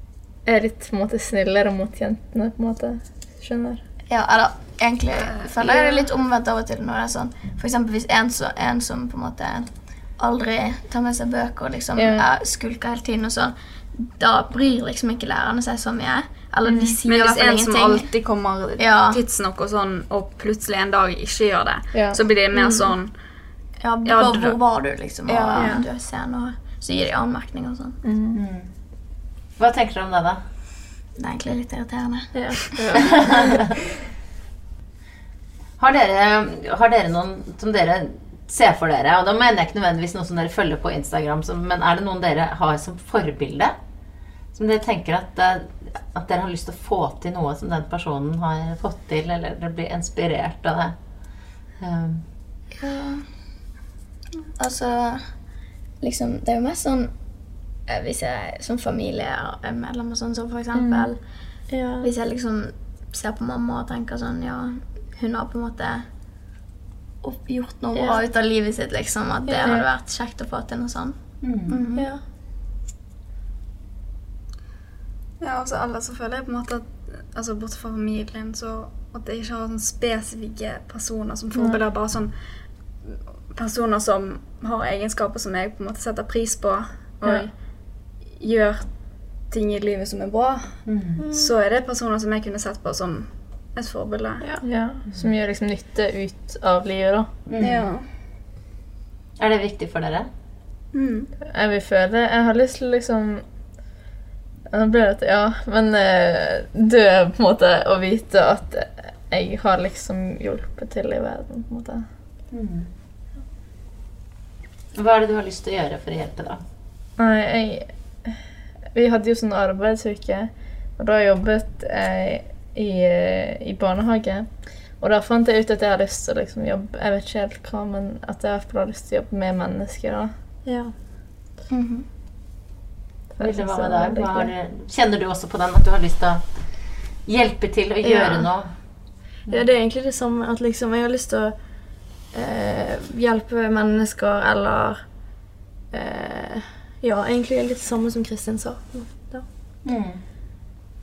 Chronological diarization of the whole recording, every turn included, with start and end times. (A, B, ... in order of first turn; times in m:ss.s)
0:00.4-0:03.8 A
0:04.1-0:18.1 B
0:05.2-0:05.9 C
0:11.9-0:12.3 A
0:16.6-0:16.9 A
0:17.1-0:23.1 C
0:18.8-0:19.2 B
0:21.9-0:22.2 A
0:22.5-0:22.9 B
0:23.8-0:28.0 B
0:24.0-0:24.6 C
0:25.3-0:25.8 D
0:25.5-0:25.8 C
0:28.0-0:28.4 A
0:28.3-0:28.7 E
0:29.6-0:30.4 E
0:31.2-0:32.8 B
0:32.3-0:32.8 D
0:32.7-0:33.7 A
0:33.2-0:33.6 E
0:35.8-0:43.7 E
0:44.5-0:51.0 E
0:51.8-0:52.2 E
0:52.8-0:53.3 B
0:54.6-0:55.3 B
0:56.0-0:57.1 B
0:57.8-1:01.2 B
1:00.7-1:01.1 A
1:01.7-1:02.1 D
1:02.0-1:06.0 B
1:07.2-1:12.1 B
1:07.9-1:08.2 D
1:09.5-1:09.8 D
1:11.4-1:11.8 E
1:12.0-1:12.2 D
1:15.4-1:22.4 C
1:21.5-1:21.8 A
1:23.1-1:34.4 C
1:30.8-1:31.2 E
1:31.2-1:31.5 D
1:34.6-1:37.3 A
1:37.5-1:37.9 E
1:37.6-1:38.1 C
1:39.4-1:40.3 E
1:40.9-1:41.3 C
1:41.5-1:43.4 A
1:44.7-1:52.0 A
1:52.5-1:52.9 E
1:54.9-1:56.6 E
1:57.2-1:58.4 A
1:58.9-2:10.3 A
2:10.6-2:10.9 D
2:11.7-2:12.0 B
2:13.3-2:14.5 A
2:13.4-2:16.5 E
2:17.2-2:18.7 E
2:18.0-2:18.5 D
2:19.5-2:21.5 D
2:22.3-2:25.0 D
2:25.9-2:29.4 D
2:29.8-2:30.2 E